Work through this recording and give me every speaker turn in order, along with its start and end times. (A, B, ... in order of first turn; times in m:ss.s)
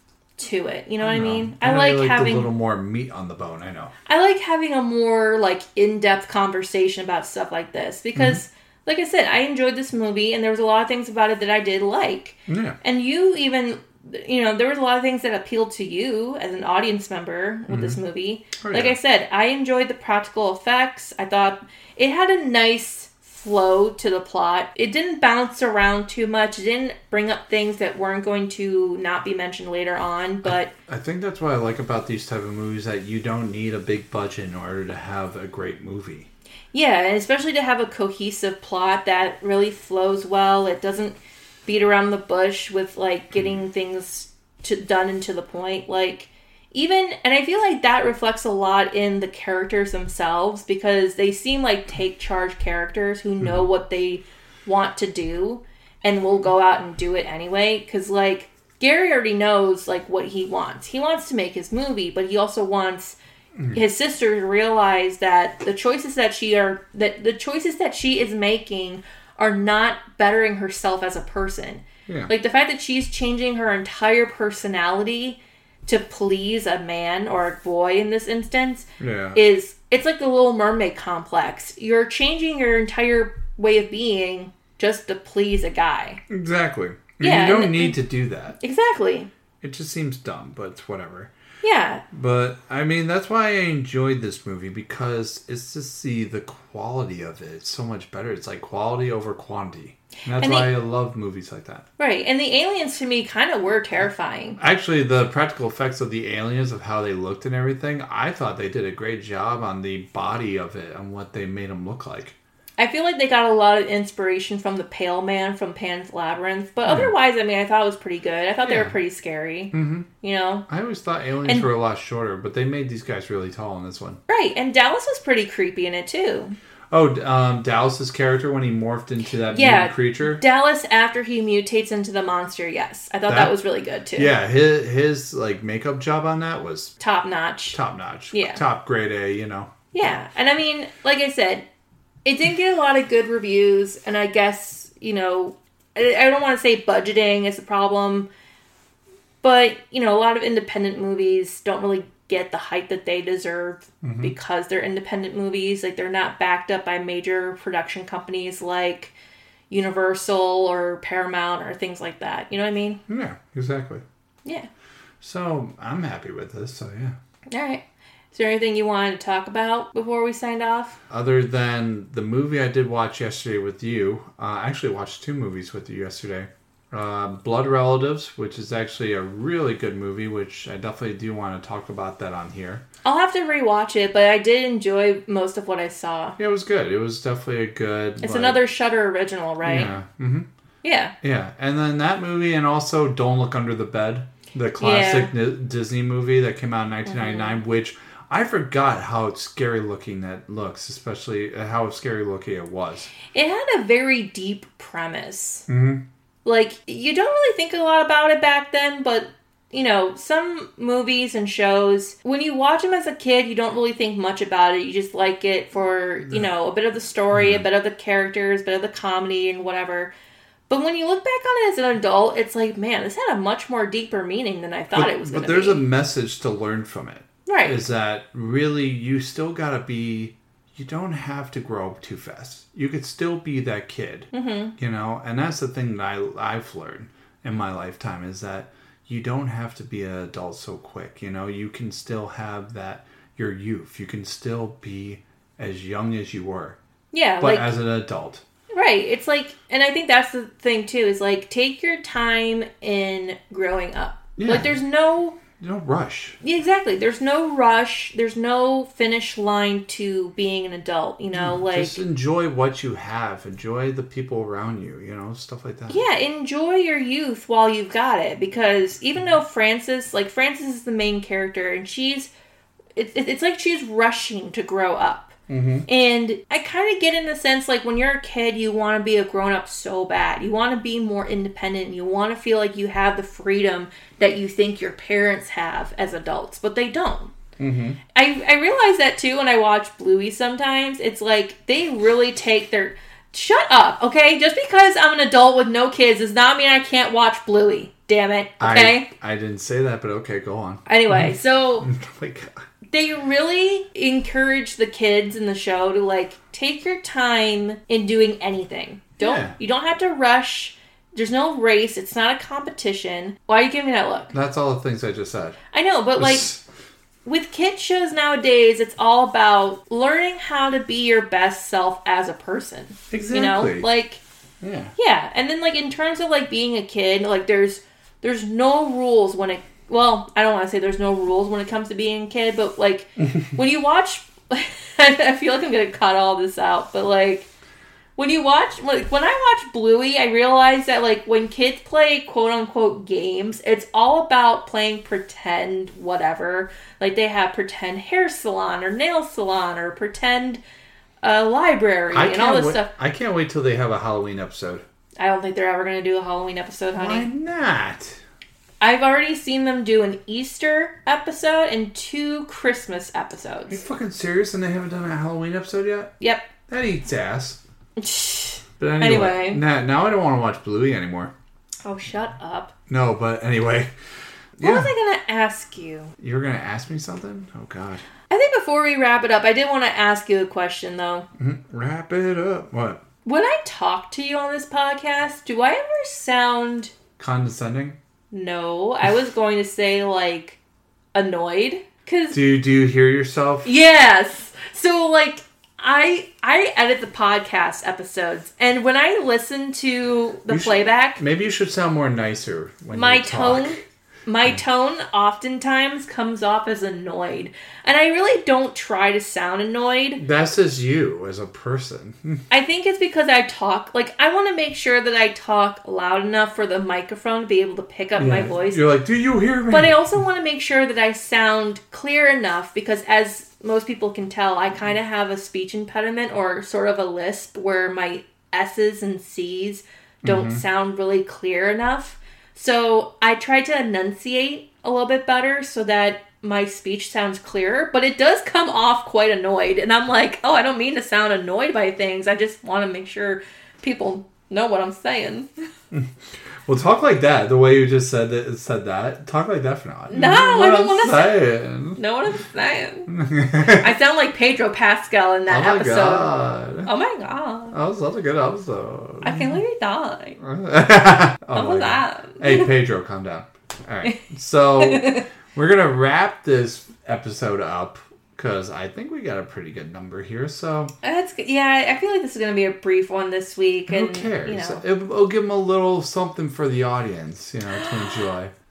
0:00.4-0:02.5 A
0:01.0-0:03.9 B
0:04.1-0:30.7 A
0:08.2-0:08.4 B
0:12.5-0:12.8 B
0:17.7-0:18.0 B
0:18.6-0:19.0 B
0:30.4-0:36.3 B
0:36.7-1:03.2 A
1:03.7-1:26.2 A
1:19.0-1:19.4 B
1:26.3-1:28.6 B
1:27.2-1:28.0 A
1:28.6-1:29.3 A
1:29.6-1:31.3 B
1:31.6-1:32.0 A
1:32.1-1:41.8 B
1:40.3-1:40.7 A
1:42.0-1:44.6 A
1:44.6-1:52.4 B
1:52.8-2:00.7 A
1:56.8-1:57.1 B
1:58.6-1:59.0 B
1:59.7-2:00.1 B
2:00.7-2:04.2 B
2:04.3-2:06.6 A
2:06.9-2:10.4 B
2:09.5-2:14.3 A
2:13.3-2:13.6 B
2:14.2-2:16.9 B
2:17.0-2:17.8 A
2:17.7-2:19.7 B
2:18.3-2:18.6 A
2:19.9-2:21.7 A
2:22.2-2:28.3 A
2:29.4-2:39.2 A
2:34.0-2:34.3 B
2:39.7-2:43.0 A
2:43.1-2:44.0 B
2:45.2-2:47.2 B
2:47.5-2:51.0 A
2:51.1-3:02.8 B
3:03.0-3:06.4 A
3:06.4-3:08.6 B
3:08.2-3:09.9 A
3:09.6-3:10.5 B
3:10.8-3:11.1 A
3:11.2-3:23.1 B
3:14.8-3:15.3 A
3:17.1-3:17.6 A
3:23.3-3:25.7 A
3:25.7-3:26.0 B
3:26.4-3:40.1 A
3:37.3-3:37.6 B
3:40.7-3:45.8 A
3:44.9-4:06.8 B
3:47.5-3:47.8 A
3:54.3-3:54.7 A
4:07.1-4:07.7 A
4:07.4-4:08.4 B
4:08.7-4:15.4 A
4:14.4-4:14.8 B
4:15.5-4:16.4 B
4:16.4-4:22.0 A
4:21.4-4:26.0 B
4:25.9-4:32.3 A
4:33.0-4:35.4 A
4:35.5-4:35.9 B
4:35.9-4:47.3 A
4:47.6-4:48.0 B
4:48.1-4:59.1 A
4:58.6-5:02.5 B
5:00.9-5:01.9 A
5:02.9-5:14.3 A
5:09.2-5:09.5 B
5:14.3-5:15.6 B
5:15.7-5:16.5 A
5:16.2-5:16.6 B
5:17.2-5:24.2 A
5:23.1-5:23.9 B
5:24.6-5:24.9 B
5:25.0-5:37.5 A
5:38.2-5:50.6 A
5:51.2-5:52.9 A
5:52.1-5:54.8 B
5:55.2-5:57.3 A
5:57.0-5:58.2 B
5:58.8-6:03.8 A
6:03.7-6:06.2 B
6:06.2-6:06.5 A
6:06.7-6:07.6 B
6:08.0-6:09.6 A
6:08.8-6:11.3 B
6:11.8-6:12.7 A
6:12.9-6:13.9 B
6:14.6-6:14.9 B
6:14.6-6:16.1 A
6:16.2-6:18.0 B
6:18.3-6:21.3 A
6:21.4-6:23.0 B
6:23.2-6:26.9 A
6:27.2-6:28.0 B
6:28.3-6:30.6 A
6:31.2-6:32.4 A
6:32.3-6:33.7 B
6:33.6-6:41.2 A
6:40.5-6:43.8 B
6:42.9-6:50.2 A
6:50.2-6:52.4 B
6:52.5-6:58.8 A
6:58.2-7:00.2 B
6:59.7-7:25.5 A
7:10.2-7:10.6 B
7:26.7-7:32.0 B
7:30.1-7:37.8 A
7:33.1-7:33.9 B
7:35.5-7:36.9 B
7:37.7-7:39.6 B
7:39.2-7:40.4 A
7:40.4-7:50.9 B
7:41.5-7:42.7 A
7:44.8-7:45.3 A
7:51.0-7:54.8 A
7:53.9-7:58.5 B